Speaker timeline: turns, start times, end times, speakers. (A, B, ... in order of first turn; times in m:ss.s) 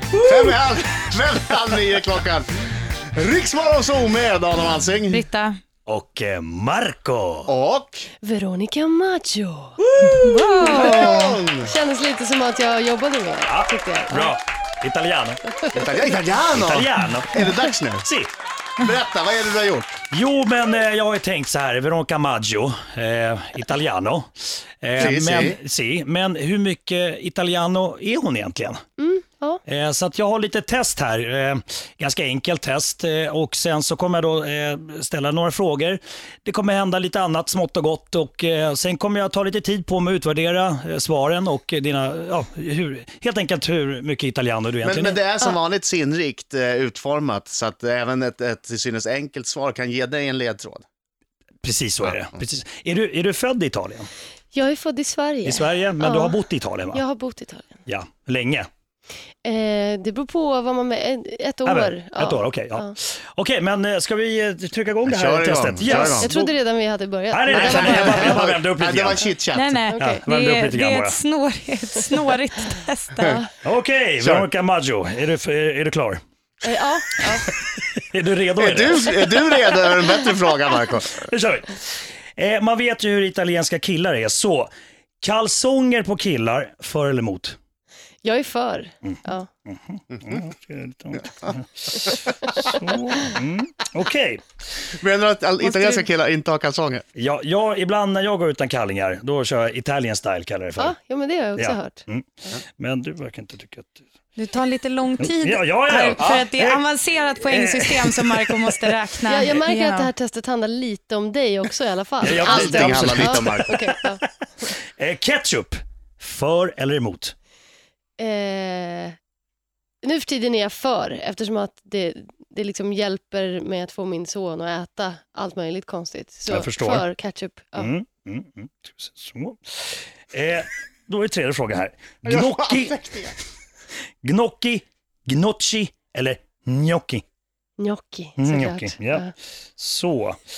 0:00.2-0:02.5 A
0:03.1-0:05.2 A
0:05.1-0:05.6 B
0:05.8-0:07.5 C
0:07.4-0:08.1 A
0:08.2-0:09.8 D
0:10.0-0:11.2 B
0:10.0-0:11.7 A
0:10.6-0:14.2 D
0:13.4-0:15.4 C
0:15.5-0:15.9 D
0:15.7-0:18.1 A
0:16.5-0:17.4 C
0:18.0-0:18.3 C
0:18.8-0:20.0 A
0:20.1-0:28.8 C
0:25.0-0:25.6 A
0:29.0-0:29.6 D
0:29.7-0:45.2 C
0:44.8-0:50.8 A
0:51.6-0:54.1 C
0:54.5-0:56.4 D
0:55.4-0:57.0 C
0:56.9-0:57.8 D
0:57.9-0:58.7 C
0:59.4-1:02.9 D
1:01.6-1:06.5 C
1:05.1-1:06.3 A
1:05.8-1:08.5 D
1:07.3-1:09.3 C
1:07.5-1:09.8 A
1:09.5-1:13.3 B
1:09.9-1:10.2 D
1:10.0-1:11.2 C
1:13.2-1:13.5 D
1:13.6-1:16.2 C
1:14.2-1:14.4 A
1:16.6-1:17.5 D
1:17.5-1:19.7 C
1:18.6-1:21.3 A
1:21.2-1:24.7 C
1:25.2-1:27.6 C
1:28.2-1:29.5 D
1:29.1-1:34.4 C
1:35.0-1:37.0 A
1:35.6-1:36.0 B
1:37.2-1:40.9 C
1:40.8-1:42.0 D
1:41.6-1:42.2 C
1:42.8-1:44.0 C
1:44.4-1:50.1 B
1:45.2-1:46.8 C
1:47.4-1:48.8 C
1:49.2-1:54.7 D
1:52.2-1:57.3 C
1:52.3-1:53.7 A
1:58.2-1:59.2 D
2:00.0-2:07.9 D
2:06.5-2:07.1 C
2:07.8-2:13.0 C
2:12.2-2:13.4 A
2:14.2-2:17.2 C
2:17.8-2:19.3 D
2:18.4-2:20.4 C